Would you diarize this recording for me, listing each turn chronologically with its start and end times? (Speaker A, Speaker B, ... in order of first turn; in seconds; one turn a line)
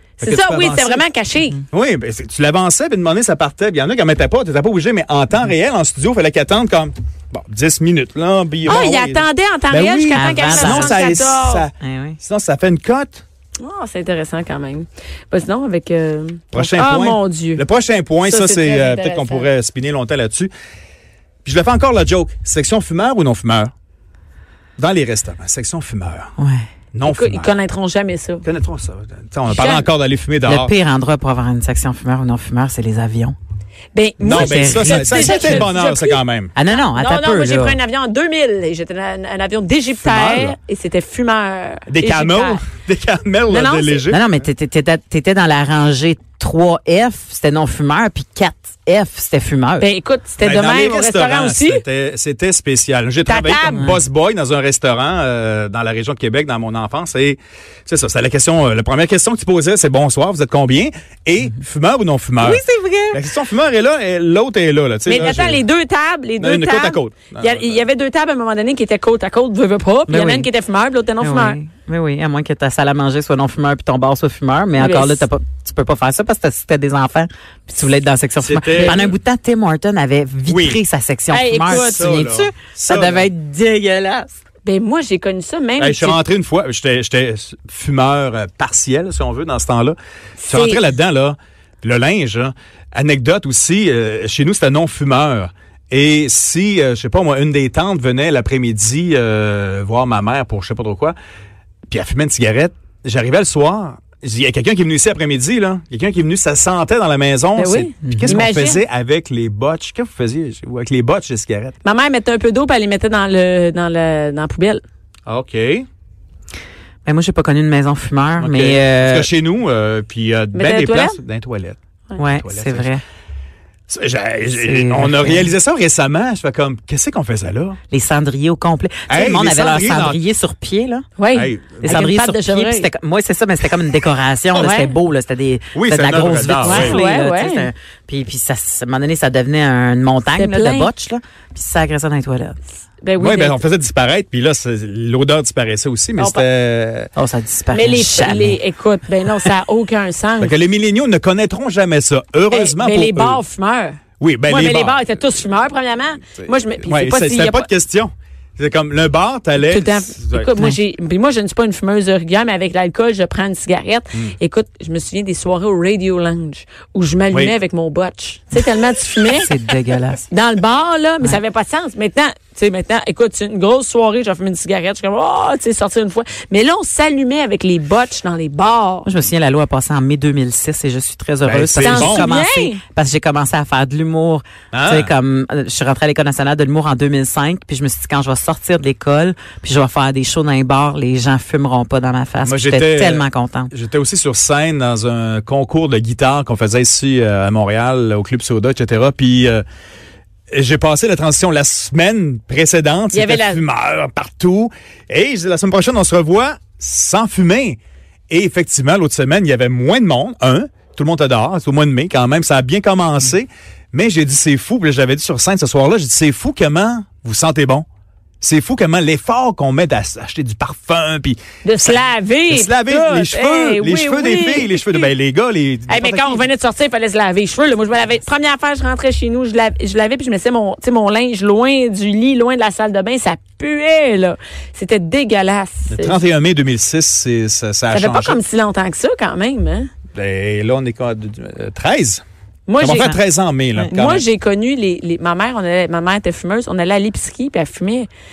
Speaker A: 0.2-1.6
Speaker B: 0.2-1.0
Speaker B: 1.7-13.2
Speaker A: 8.6-11.6
Speaker C: 10.1-11.0
Speaker C: 11.8-12.2
Speaker A: 13.6-17.6
Speaker B: 16.5-20.5
Speaker A: 18.2-19.5
Speaker B: 21.4-23.7
Speaker B: 24.8-26.3
Speaker C: 26.4-26.6
Speaker B: 26.9-27.5
Speaker A: 27.1-28.4
Speaker B: 28.4-30.7
Speaker A: 29.5-29.8
Speaker C: 30.4-33.4
Speaker A: 33.9-36.2
Speaker C: 34.2-35.7
Speaker B: 34.2-36.5
Speaker C: 36.5-37.8
Speaker A: 36.9-42.6
Speaker B: 40.0-40.5
Speaker B: 41.9-44.2
Speaker A: 43.5-44.0
Speaker C: 44.1-49.9
Speaker A: 49.8-51.8
Speaker B: 50.4-65.6
Speaker A: 53.2-53.9
Speaker C: 62.4-63.2
Speaker A: 65.0-71.6
Speaker B: 66.4-67.8
Speaker C: 70.1-70.5
Speaker C: 71.2-84.3
Speaker A: 74.8-75.2
Speaker B: 78.4-79.0
Speaker A: 78.7-79.1
Speaker B: 80.5-80.8
Speaker A: 81.3-82.2
Speaker B: 81.7-83.3
Speaker A: 84.6-86.2
Speaker B: 85.8-90.0
Speaker A: 90.4-90.8
Speaker B: 90.5-101.2
Speaker B: 101.9-111.7
Speaker A: 107.5-108.8
Speaker C: 108.0-108.4
Speaker A: 111.8-114.8
Speaker B: 115.3-115.8
Speaker C: 117.0-119.3
Speaker B: 118.4-121.8
Speaker A: 120.5-121.2
Speaker C: 122.2-123.0
Speaker B: 122.3-122.9
Speaker B: 123.9-127.8
Speaker C: 124.6-125.5
Speaker C: 127.9-131.1
Speaker B: 129.1-130.2
Speaker A: 131.2-132.9
Speaker B: 131.3-131.9
Speaker C: 131.8-142.6
Speaker A: 134.6-134.9
Speaker B: 135.7-137.0
Speaker A: 136.6-137.7
Speaker A: 140.3-140.9
Speaker A: 143.0-143.6
Speaker B: 143.2-147.1
Speaker A: 146.2-146.4
Speaker C: 147.1-148.6
Speaker A: 147.7-150.5
Speaker B: 150.4-153.4
Speaker A: 152.5-157.7
Speaker B: 154.2-155.1
Speaker B: 156.8-160.5
Speaker A: 159.6-169.5
Speaker C: 169.3-170.2
Speaker A: 170.3-179.1
Speaker C: 179.0-193.7
Speaker B: 181.4-182.3
Speaker A: 181.8-182.8
Speaker B: 184.7-185.1
Speaker B: 192.4-199.6
Speaker B: 200.5-207.8
Speaker A: 203.1-203.6
Speaker B: 208.3-217.8
Speaker B: 218.4-226.4
Speaker A: 221.6-225.1
Speaker A: 225.9-236.2
Speaker B: 235.9-238.4
Speaker A: 237.9-239.9
Speaker B: 240.1-242.2
Speaker A: 242.7-243.2
Speaker B: 242.8-244.2
Speaker A: 243.9-248.1